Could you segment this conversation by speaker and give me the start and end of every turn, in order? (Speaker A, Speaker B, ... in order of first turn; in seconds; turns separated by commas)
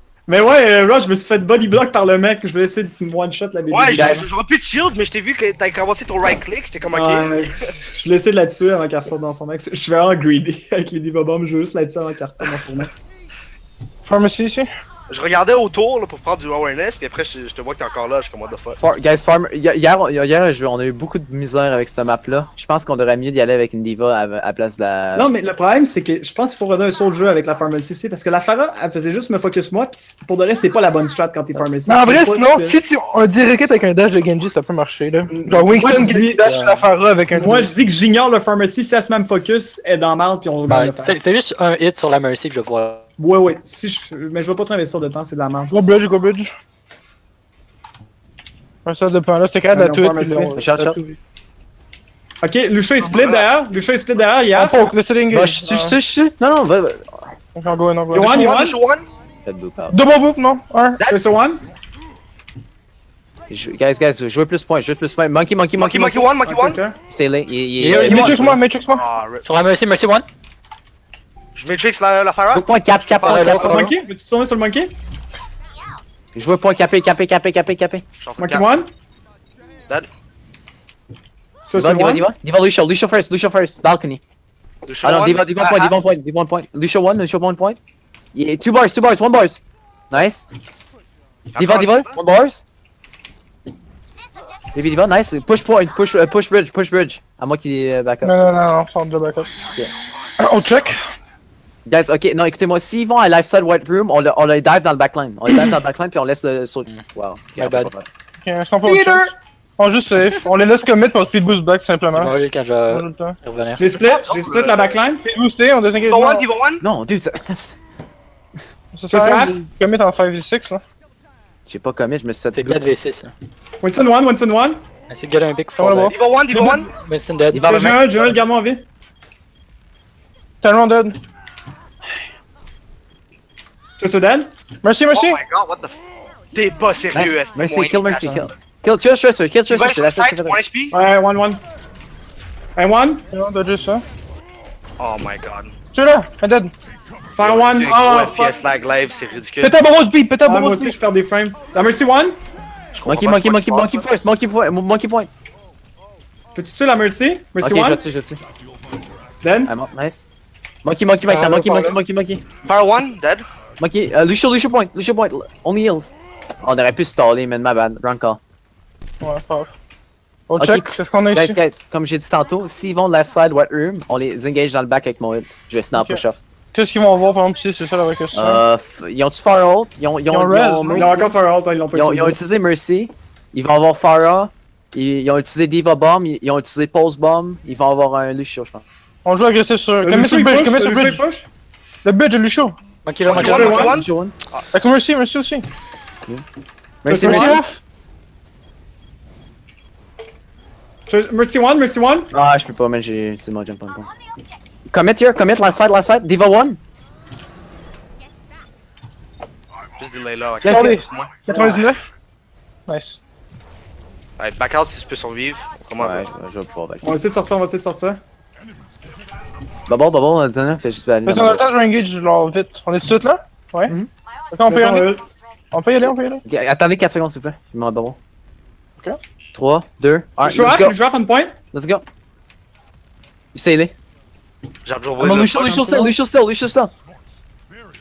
Speaker A: 0.3-4.3, Speaker B: 3.7-7.3, Speaker C: 3.9-4.3, Speaker A: 6.9-12.9, Speaker D: 14.0-14.7, Speaker B: 15.1-18.8, Speaker C: 18.8-25.3, Speaker A: 25.2-32.8, Speaker D: 31.9-37.7, Speaker A: 35.3-36.4, Speaker E: 36.1-36.9, Speaker A: 37.3-41.2, Speaker E: 40.7-43.0, Speaker A: 43.2-45.8, Speaker D: 45.7-46.5, Speaker D: 48.9-51.2, Speaker A: 49.7-50.6, Speaker C: 50.6-51.0, Speaker A: 52.4-54.8, Speaker B: 53.1-53.5, Speaker D: 54.5-56.0, Speaker C: 55.3-57.3, Speaker D: 57.5-58.4, Speaker A: 58.1-58.8, Speaker B: 58.1-59.1, Speaker C: 59.5-60.0, Speaker D: 59.9-61.0, Speaker A: 61.1-61.6, Speaker C: 63.5-66.3, Speaker B: 65.8-66.8, Speaker A: 66.4-67.0, Speaker C: 67.1-68.6, Speaker E: 67.8-68.4, Speaker D: 68.0-69.0, Speaker B: 68.9-69.5, Speaker E: 69.4-70.3, Speaker B: 71.5-73.5, Speaker C: 72.5-73.8, Speaker E: 73.2-74.0, Speaker A: 73.5-74.9, Speaker C: 76.3-78.0, Speaker B: 78.2-78.6, Speaker A: 78.4-78.9, Speaker A: 81.7-82.3, Speaker C: 81.8-84.2, Speaker B: 84.9-86.0, Speaker C: 85.0-87.8, Speaker C: 88.3-90.5, Speaker B: 91.5-92.2, Speaker C: 91.6-92.6, Speaker C: 94.8-98.3, Speaker D: 98.2-99.5, Speaker D: 100.4-101.0, Speaker C: 101.9-108.1, Speaker E: 106.9-107.9, Speaker D: 108.4-112.3, Speaker A: 108.8-109.3, Speaker E: 112.1-113.9, Speaker D: 112.9-113.4, Speaker A: 113.8-115.2, Speaker B: 113.9-115.0, Speaker D: 115.2-116.5, Speaker B: 116.0-116.8, Speaker C: 116.8-117.8, Speaker D: 118.9-120.8, Speaker A: 119.1-119.6, Speaker C: 121.7-122.8, Speaker E: 122.5-123.3, Speaker A: 123.8-124.8, Speaker E: 125.1-126.2, Speaker D: 125.8-126.2, Speaker B: 126.1-126.9, Speaker A: 126.5-126.8, Speaker E: 126.9-127.8, Speaker C: 127.5-128.1, Speaker A: 127.7-128.8, Speaker D: 130.6-131.2, Speaker A: 134.0-134.5, Speaker D: 134.8-135.4, Speaker B: 135.1-135.9, Speaker B: 136.5-138.5, Speaker C: 137.1-140.6, Speaker B: 139.7-140.9, Speaker A: 140.9-141.6, Speaker A: 142.8-143.2, Speaker D: 143.3-144.0, Speaker B: 145.0-145.7, Speaker D: 145.9-146.7, Speaker A: 147.4-148.6, Speaker B: 147.4-149.8, Speaker D: 149.6-151.0, Speaker A: 150.4-152.4, Speaker B: 152.9-154.1, Speaker C: 153.1-155.3, Speaker A: 156.5-158.0, Speaker C: 157.6-158.4, Speaker A: 159.4-159.7, Speaker C: 159.7-160.2, Speaker C: 160.8-162.4, Speaker E: 161.2-162.0, Speaker B: 162.6-163.4, Speaker C: 163.8-168.4, Speaker D: 169.2-169.7, Speaker D: 170.5-171.6, Speaker C: 170.6-176.4, Speaker D: 175.9-178.6, Speaker C: 178.3-181.3, Speaker D: 180.3-181.2, Speaker A: 180.9-182.4, Speaker C: 181.9-188.8, Speaker D: 189.2-191.2, Speaker A: 190.0-191.5, Speaker D: 192.0-192.8, Speaker E: 193.0-193.8, Speaker C: 193.3-194.3, Speaker B: 193.3-194.1, Speaker A: 193.3-194.0, Speaker D: 194.7-195.7, Speaker C: 197.0-197.6, Speaker A: 197.1-197.6, Speaker D: 197.2-197.8, Speaker A: 201.1-202.3, Speaker C: 202.3-204.1, Speaker C: 204.9-206.8, Speaker B: 210.0-211.7, Speaker C: 210.6-210.9, Speaker D: 210.7-212.0, Speaker D: 212.9-213.2, Speaker B: 214.4-216.3, Speaker C: 216.0-217.1, Speaker A: 217.0-218.2, Speaker C: 219.9-221.6, Speaker D: 221.3-223.9, Speaker D: 224.5-225.1, Speaker A: 224.7-225.2, Speaker D: 225.7-226.4, Speaker C: 226.4-228.2, Speaker C: 229.5-230.9, Speaker A: 230.4-231.5, Speaker C: 231.7-232.0, Speaker C: 233.5-233.9, Speaker B: 234.9-235.8, Speaker C: 235.2-236.9, Speaker A: 235.4-236.2